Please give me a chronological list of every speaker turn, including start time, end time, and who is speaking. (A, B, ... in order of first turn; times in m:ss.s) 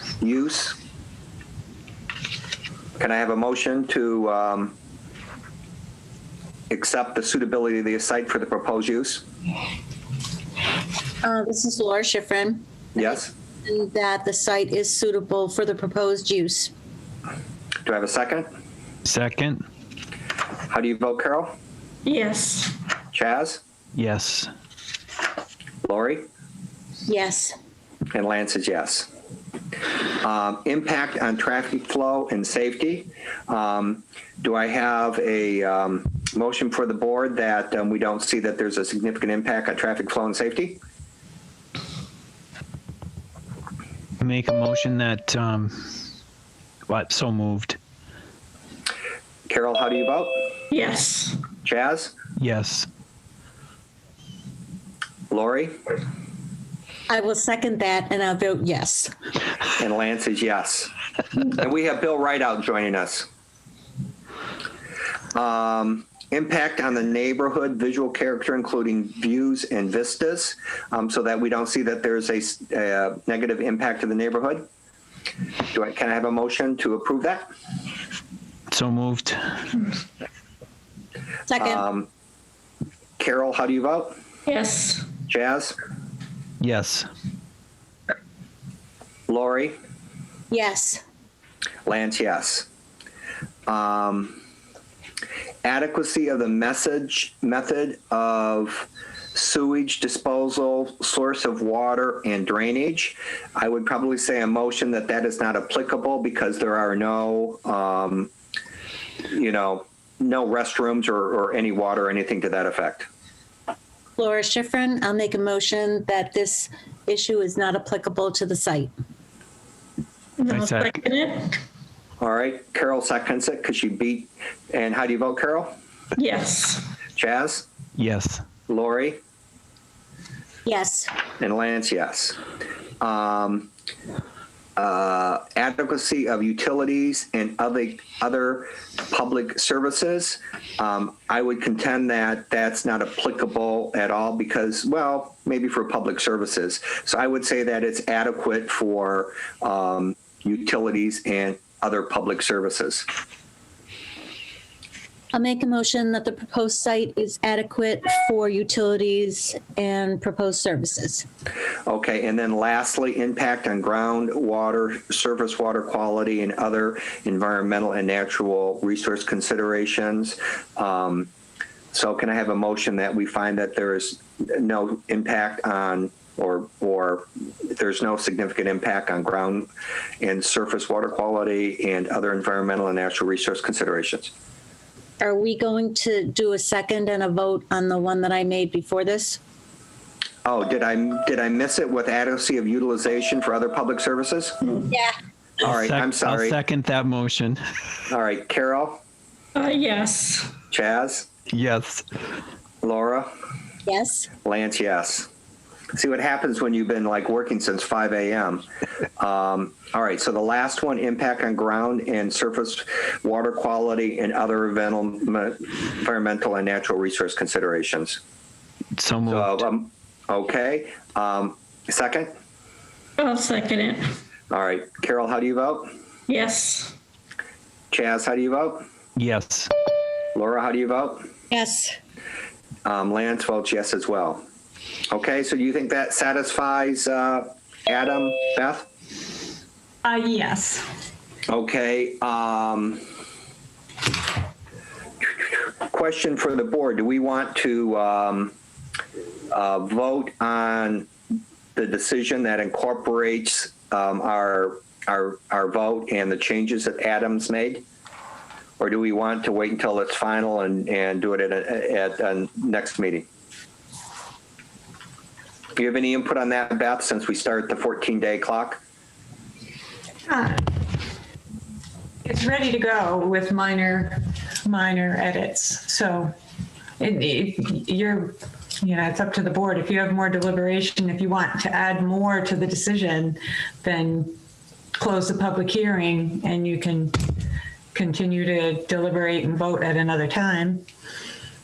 0:00.2-0:00.8 A
0:03.0-0:04.8 A
0:06.7-0:09.2 A
0:11.2-0:16.7 B
0:13.0-0:13.3 A
0:17.8-0:18.5 A
0:19.0-0:19.6 C
0:20.7-0:21.5 A
0:22.0-0:22.8 D
0:23.1-0:23.6 A
0:24.0-0:24.5 C
0:25.8-0:26.3 A
0:27.1-0:27.6 B
0:28.1-0:29.1 A
0:30.2-0:40.8 A
0:44.2-0:46.0 C
0:46.9-0:47.8 C
0:49.5-0:50.4 A
0:50.7-0:51.4 D
0:51.6-0:52.1 A
0:52.4-0:52.9 C
0:55.3-0:55.8 A
0:57.1-0:59.1 B
0:59.8-1:00.9 A
1:01.5-1:03.3 A
1:05.3-1:14.7 A
1:15.7-1:17.4 A
1:18.7-1:19.6 C
1:21.5-1:21.8 B
1:21.6-1:22.1 A
1:23.2-1:24.2 A
1:24.5-1:25.1 D
1:25.3-1:25.8 A
1:26.6-1:27.1 C
1:29.3-1:29.8 A
1:30.5-1:31.0 B
1:31.9-1:32.7 A
1:33.7-1:34.4 A
1:35.6-1:48.3 A
1:49.3-1:53.1 A
1:54.2-1:58.9 B
2:00.4-2:01.6 D
2:00.5-2:01.0 C
2:02.2-2:05.7 A
2:06.2-2:06.8 D
2:07.2-2:07.7 A
2:08.0-2:08.4 C
2:08.7-2:09.2 A
2:10.7-2:11.1 B
2:11.4-2:12.4 A
2:13.0-2:13.7 A
2:14.8-2:33.1 A
2:35.3-2:41.2 B
2:41.9-2:51.3 A
2:51.9-2:59.7 A
3:00.2-3:04.3 A
3:05.2-3:09.4 B
3:10.4-3:14.6 A
3:15.6-3:16.6 A
3:15.6-3:17.6 C
3:18.1-3:19.0 A
3:19.6-3:20.5 D
3:20.7-3:21.3 A
3:21.5-3:22.0 C
3:22.8-3:23.3 A
3:23.9-3:24.3 B
3:24.4-3:25.3 A
3:25.9-3:28.7 A
3:29.2-3:38.2 A
3:39.0-3:39.6 C
3:39.3-3:42.3 A
3:43.2-3:44.1 D
3:44.5-3:45.9 A
3:46.3-3:46.9 D
3:47.9-3:48.8 A
3:49.2-3:49.7 C
3:50.4-3:51.3 A
3:51.5-3:52.0 B
3:52.8-3:54.4 A
3:55.1-3:58.9 A
4:00.0-4:00.8 E
4:01.5-4:03.0 A
4:05.8-4:08.5 A
4:09.5-4:11.1 A
4:11.8-4:17.8 A
4:18.8-4:23.3 A
4:25.8-4:28.8 A
4:30.3-4:30.6 E
4:32.2-4:36.3 E
4:37.0-4:44.4 E
4:45.0-4:47.2 E
4:47.9-4:50.8 E